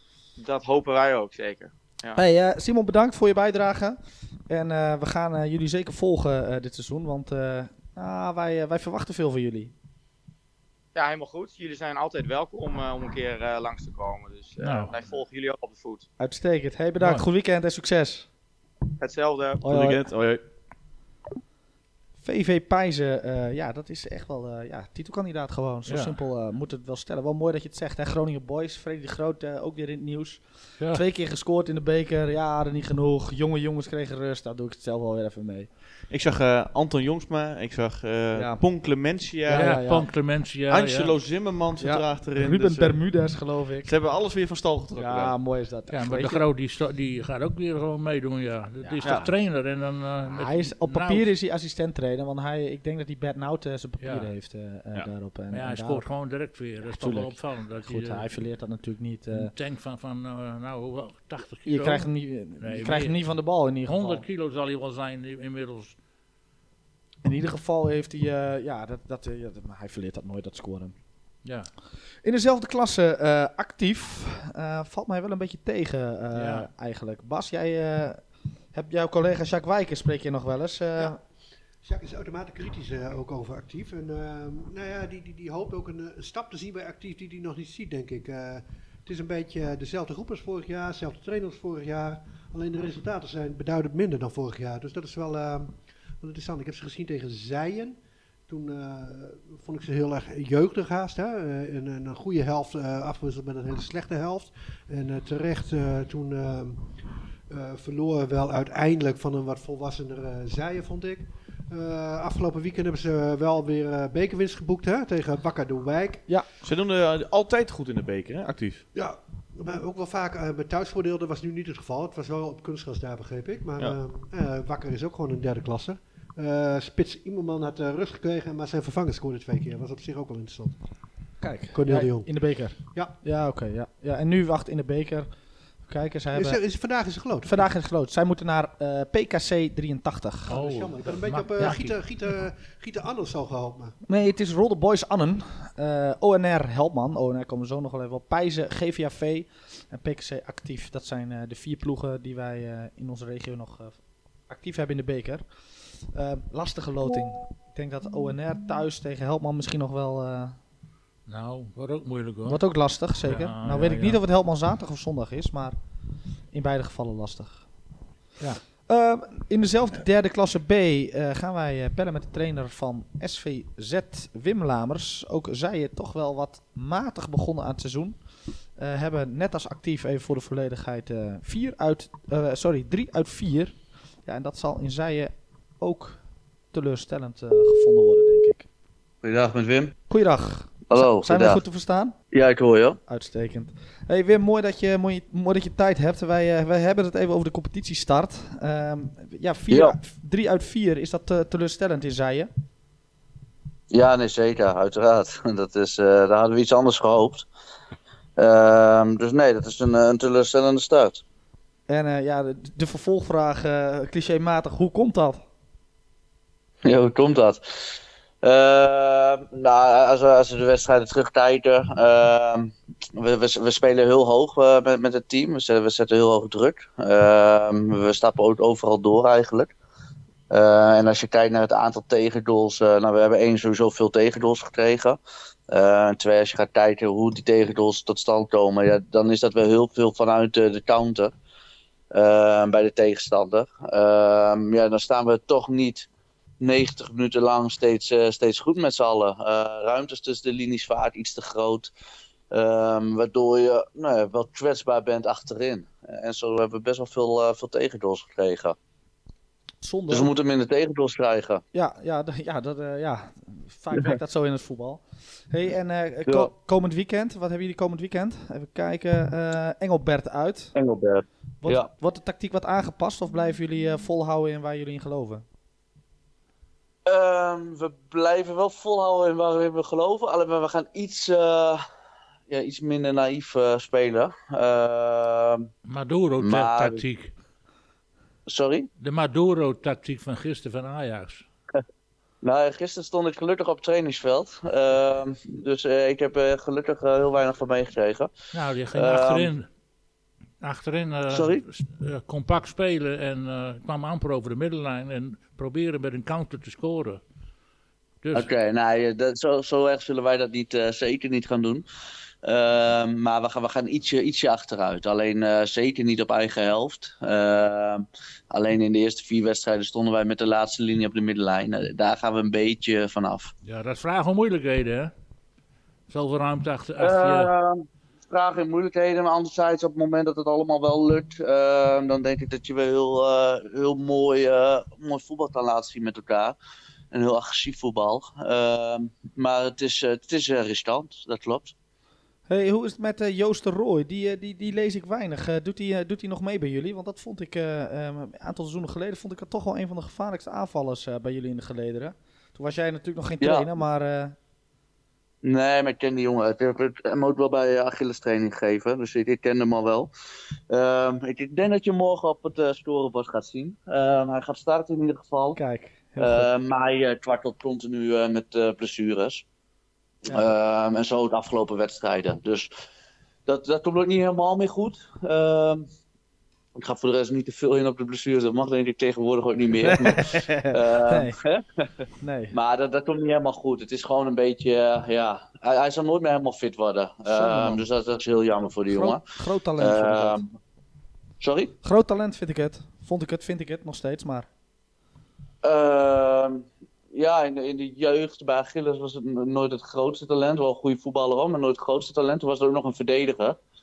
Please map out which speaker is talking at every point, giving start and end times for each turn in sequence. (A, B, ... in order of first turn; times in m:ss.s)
0:00.4-0:02.2 A
0:02.2-0:09.7 B
0:11.0-0:16.1 A
0:14.6-0:14.9 C
0:16.2-0:18.3 B
0:17.0-0:17.2 C
0:19.0-0:19.6 A
0:19.6-0:20.0 B
0:19.6-0:20.4 D
0:22.2-0:35.7 B
0:25.9-0:26.2 C
0:36.1-0:39.9 D
0:38.4-0:38.6 B
0:39.5-0:40.1 B
0:39.5-0:41.1 C
0:40.7-0:43.0 D
0:41.8-0:43.9 B
0:43.8-0:45.4 D
0:45.0-0:46.4 B
0:45.9-0:51.3 C
0:48.8-0:49.3 B
0:49.0-0:49.3 D
0:50.3-0:56.1 B
0:54.0-0:54.3 C
0:55.5-0:58.3 C
0:56.8-0:59.5 B
0:59.3-1:02.1 C
1:01.7-1:04.2 B
1:02.6-1:03.2 C
1:03.9-1:06.0 C
1:07.2-1:11.0 B
1:11.4-1:11.7 C
1:12.2-1:21.2 B
1:16.3-1:16.7 C
1:21.8-1:46.9 E
1:47.5-1:56.3 E
1:56.6-1:58.8 D
1:58.9-2:10.8 E
2:11.4-2:15.3 B
2:11.7-2:12.3 E
2:15.9-2:16.6 B
2:16.3-2:17.7 E
2:17.4-2:20.6 B
2:20.5-2:22.0 C
2:20.5-2:24.0 E
2:24.1-2:40.6 B
2:41.3-2:42.6 C
2:42.4-2:45.8 B
2:43.2-2:44.2 C
2:46.5-2:47.7 B
2:48.9-2:58.2 B
2:58.8-3:06.2 B
3:06.7-3:08.7 B
3:09.2-3:09.9 F
3:10.1-3:12.2 B
3:10.9-3:11.6 F
3:12.3-3:13.0 F
3:13.1-3:22.5 B
3:19.7-3:20.0 F
3:23.9-3:27.5 F
3:28.4-3:31.2 F
3:31.9-3:35.4 B
3:36.8-3:37.6 F
3:38.4-3:49.7 F
3:50.5-3:55.2 F
3:55.7-4:01.3 F
4:02.1-4:06.1 F
4:06.6-4:11.9 F
4:12.5-4:18.8 F
4:19.8-4:20.3 B
4:20.1-4:21.6 F
4:21.7-4:30.8 B
4:26.3-4:26.5 F
4:30.8-4:31.9 F
4:31.6-4:35.4 B
4:37.1-4:41.8 F
4:42.5-4:45.7 F
4:45.8-4:47.3 C
4:46.4-4:47.0 F
4:48.5-4:48.9 F
4:49.0-4:51.4 C
4:52.4-4:58.3 F
4:58.5-4:59.7 C
4:58.9-4:59.5 F
5:00.6-5:07.2 C
5:01.3-5:01.6 F
5:08.2-5:08.5 C
5:08.3-5:11.8 F
5:12.4-5:23.5 F
5:23.6-5:25.1 C
5:26.1-5:27.5 C
5:27.0-5:36.6 F
5:37.1-5:41.8 F
5:42.5-5:54.4 B
5:53.4-5:53.7 F
5:55.4-6:00.1 F
6:00.7-6:05.6 F
6:05.6-6:06.5 B
6:06.2-6:09.4 F
6:10.3-6:12.7 F
6:13.5-6:15.8 F
6:16.8-6:21.8 F
6:19.8-6:21.4 B
6:22.2-6:22.6 B
6:22.5-6:29.2 F
6:27.3-6:27.9 B
6:28.9-6:30.4 B
6:29.8-6:30.6 F
6:31.4-6:31.7 F
6:31.8-6:34.5 B
6:35.6-6:43.6 F